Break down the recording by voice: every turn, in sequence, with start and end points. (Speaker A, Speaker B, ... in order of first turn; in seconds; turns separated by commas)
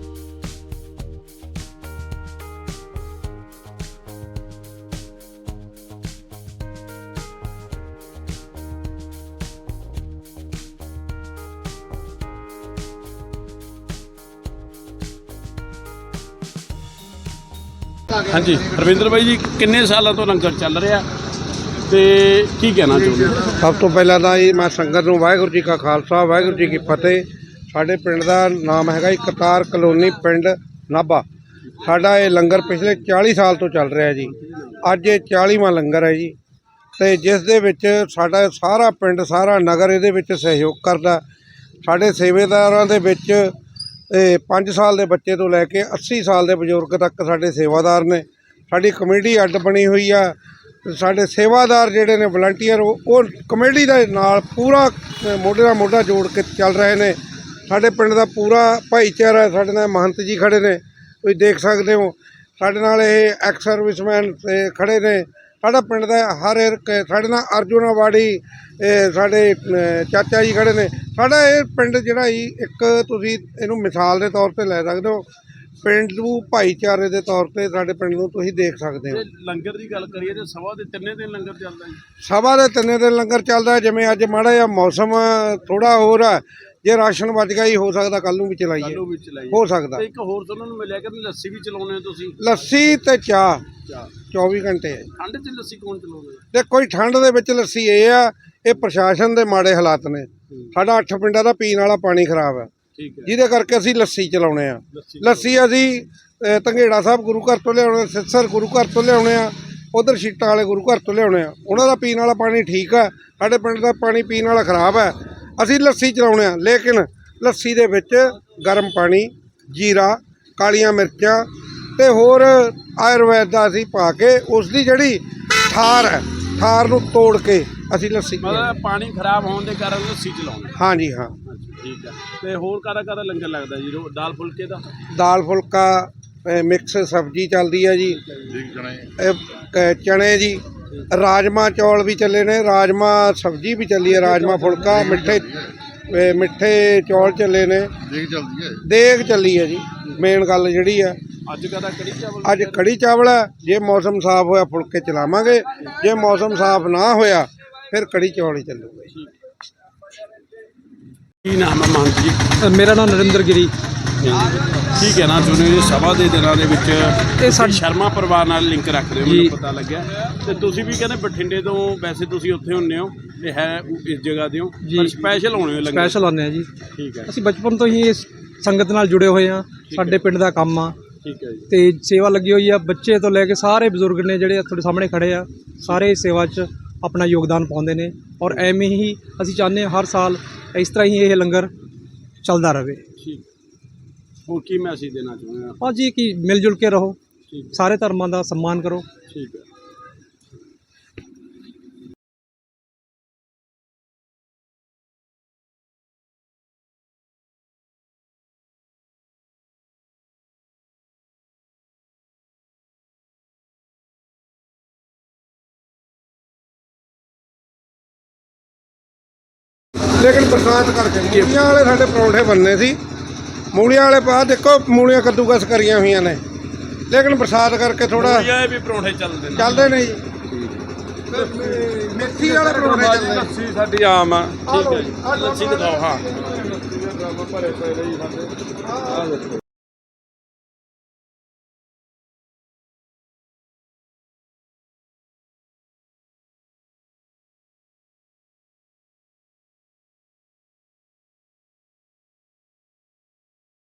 Speaker A: 18.3-21.1, Speaker A: 21.9-23.5, Speaker B: 23.5-31.2, Speaker B: 31.8-36.4, Speaker A: 34.3-34.8, Speaker B: 37.0-41.2, Speaker B: 41.8-43.5, Speaker B: 44.1-75.3, Speaker B: 75.8-79.2, Speaker A: 79.1-82.0, Speaker B: 82.2-90.0, Speaker A: 88.8-92.6, Speaker B: 92.4-93.6, Speaker B: 94.3-95.1, Speaker A: 95.2-96.4, Speaker B: 96.5-102.7, Speaker A: 103.0-103.3, Speaker B: 103.3-121.5, Speaker A: 104.9-105.5, Speaker B: 122.0-128.7, Speaker A: 128.4-130.7, Speaker B: 130.8-131.3, Speaker A: 131.4-134.9, Speaker B: 135.1-138.2, Speaker A: 138.3-138.6, Speaker B: 139.2-147.9, Speaker A: 144.2-144.9, Speaker B: 148.8-151.2, Speaker A: 151.5-152.8, Speaker B: 152.4-159.1, Speaker A: 161.4-162.4, Speaker C: 162.6-163.7, Speaker A: 164.2-176.2, Speaker C: 167.4-167.8, Speaker C: 169.2-169.5, Speaker C: 174.8-175.2, Speaker C: 175.8-176.7, Speaker A: 176.9-177.3, Speaker C: 177.3-181.0, Speaker A: 179.9-180.2, Speaker A: 181.2-181.7, Speaker C: 181.7-191.7, Speaker C: 192.4-193.0, Speaker A: 193.2-193.4, Speaker A: 194.5-195.8, Speaker C: 195.8-197.2, Speaker A: 197.5-197.8, Speaker C: 197.7-199.1, Speaker A: 199.3-199.7, Speaker B: 220.1-223.0, Speaker B: 223.7-226.4, Speaker B: 227.1-228.5, Speaker A: 228.2-229.9, Speaker B: 229.6-230.2, Speaker A: 230.5-238.6, Speaker B: 231.3-233.5, Speaker B: 234.7-236.6, Speaker B: 238.8-239.3, Speaker A: 239.1-239.6